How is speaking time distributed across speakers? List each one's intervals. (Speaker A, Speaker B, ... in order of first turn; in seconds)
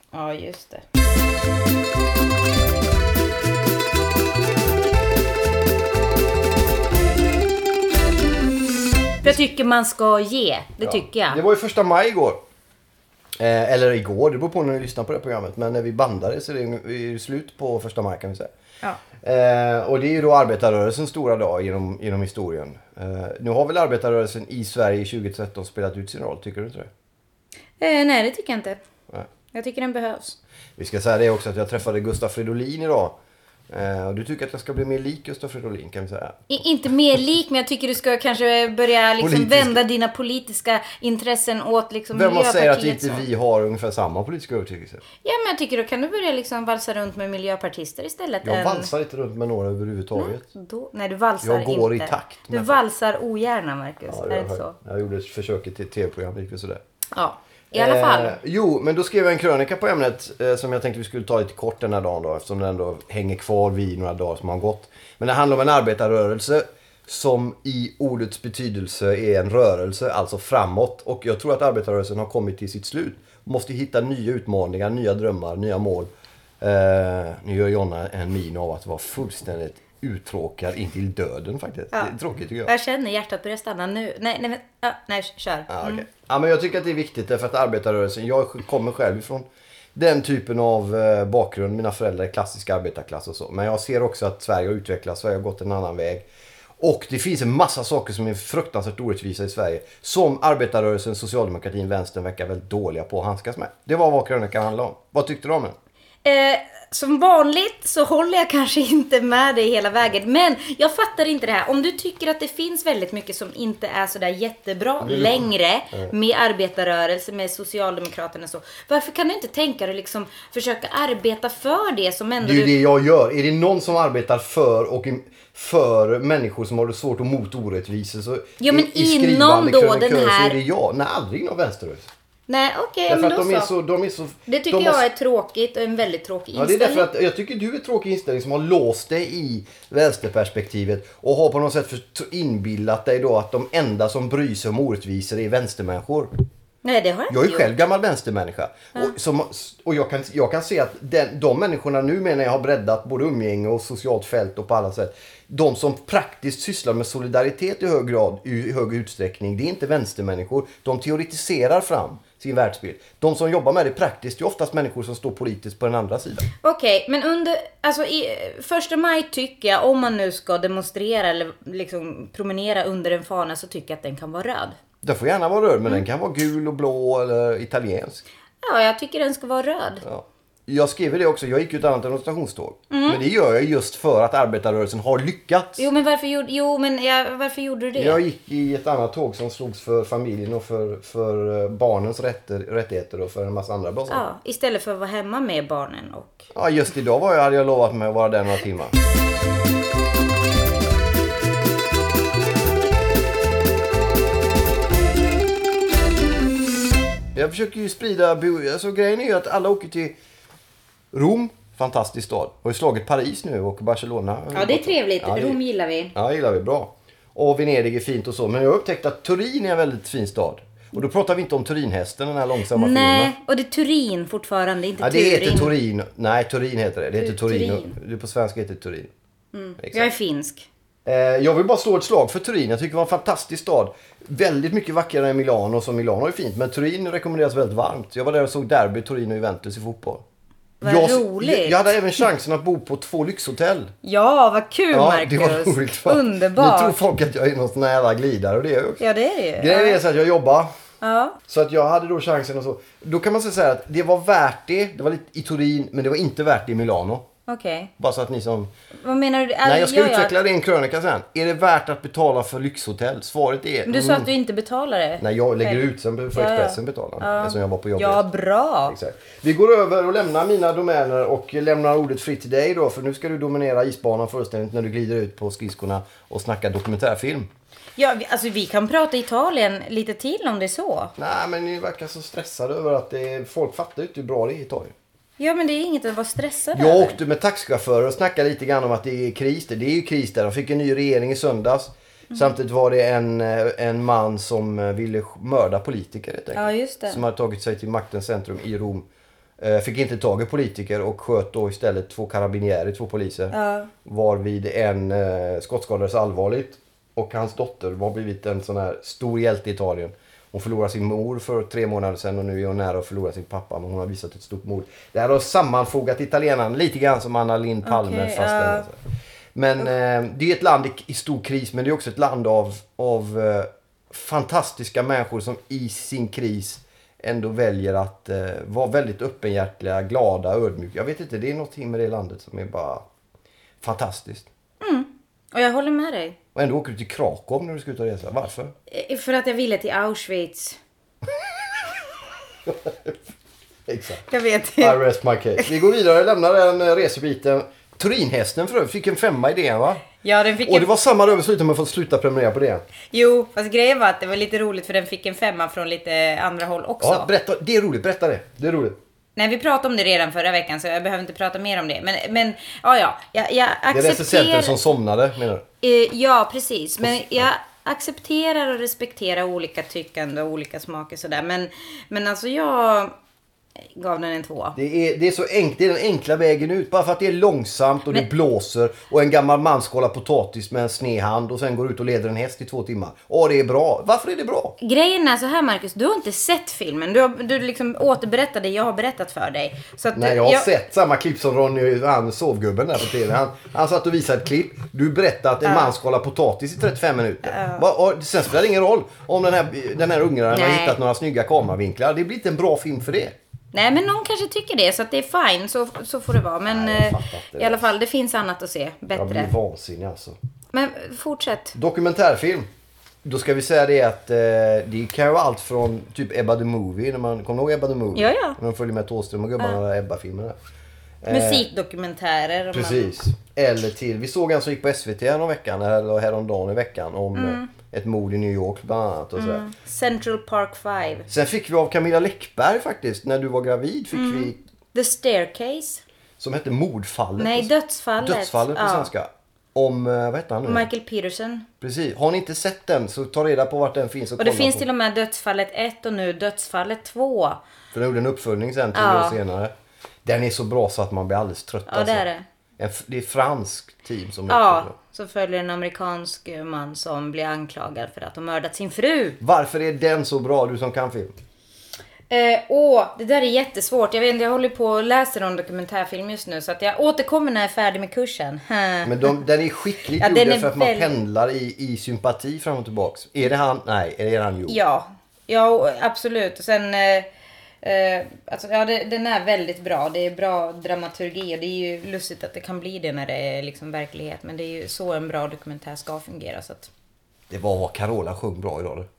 Speaker A: 0.1-0.8, 9.2-11.4, 27.8-28.8, 29.5-30.4, 36.5-43.2, 45.2-48.9, 50.1-54.7, 57.1-58.4, 82.7-86.0, 106.2-122.8, 128.6-130.6, 132.5-133.7, 134.5-137.1, 146.8-147.7, 166.6-174.8, 178.6-180.0, 182.9-183.2, 185.8-188.2, 194.1-196.5, 214.5-216.1, 222.7-225.7, 227.2-227.9, 229.5-230.7, 240.8-241.8, 244.0-247.0, 249.0-250.0, 251.0-251.4, 257.4-257.9, 259.0-260.3, 263.9-265.8, 266.3-268.9, 278.0-281.1, 285.4-287.2, 296.5-297.2, 303.5-303.9, 317.8-318.9, 334.8-336.4, 338.9-340.8, 344.3-345.0, 350.2-350.9, 353.1-357.3, 359.4-364.8, 365.8-373.1, 373.9-374.8, 384.8-390.7, 395.6-395.9, 397.4-397.8, 400.5-401.0, 403.7-409.5, 410.7-411.8, 418.1-418.6, 421.3-423.2, 427.3-427.7, 429.4-431.3, 434.1-436.0, 437.4-439.1, 440.6-441.7, 444.4-447.6, 448.9-449.4, 451.9-452.4, 454.5-459.4, 462.3-469.4, 470.2-471.1, 474.7-477.3, 477.8-486.9
Speaker B: 10.8-12.4, 13.4-18.5, 19.2-26.9, 30.8-33.2, 33.7-36.5, 39.2-39.8, 42.1-45.0, 48.4-50.4, 51.4-52.8, 54.1-56.8, 57.7-82.7, 85.7-96.3, 96.8-105.7, 115.0-116.1, 122.4-132.1, 133.1-135.0, 136.5-146.3, 147.3-166.5, 175.0-178.2, 180.0-185.9, 187.9-194.2, 196.5-198.9, 207.3-210.1, 211.1-215.6, 216.1-223.3, 225.0-229.1, 229.8-230.1, 231.0-240.2, 240.8-243.9, 244.9-249.0, 249.6-250.7, 251.5-257.3, 258.0-258.7, 259.6-264.3, 265.2-268.2, 268.9-277.5, 281.2-284.9, 286.7-299.1, 299.6-319.0, 319.5-333.0, 333.8-334.5, 336.5-338.7, 342.6-343.2, 343.9-344.2, 344.8-350.0, 350.6-352.8, 357.0-359.0, 363.9-365.6, 367.0-367.5, 374.7-384.7, 390.1-403.4, 406.7-407.9, 409.1-410.4, 411.7-412.7, 413.2-420.6, 421.2-421.6, 422.7-429.6, 431.3-434.6, 436.4-440.9, 441.8-444.8, 447.9-449.7, 450.2-452.2, 452.8-454.9, 459.4-461.3, 469.0-474.8, 487.5-489.1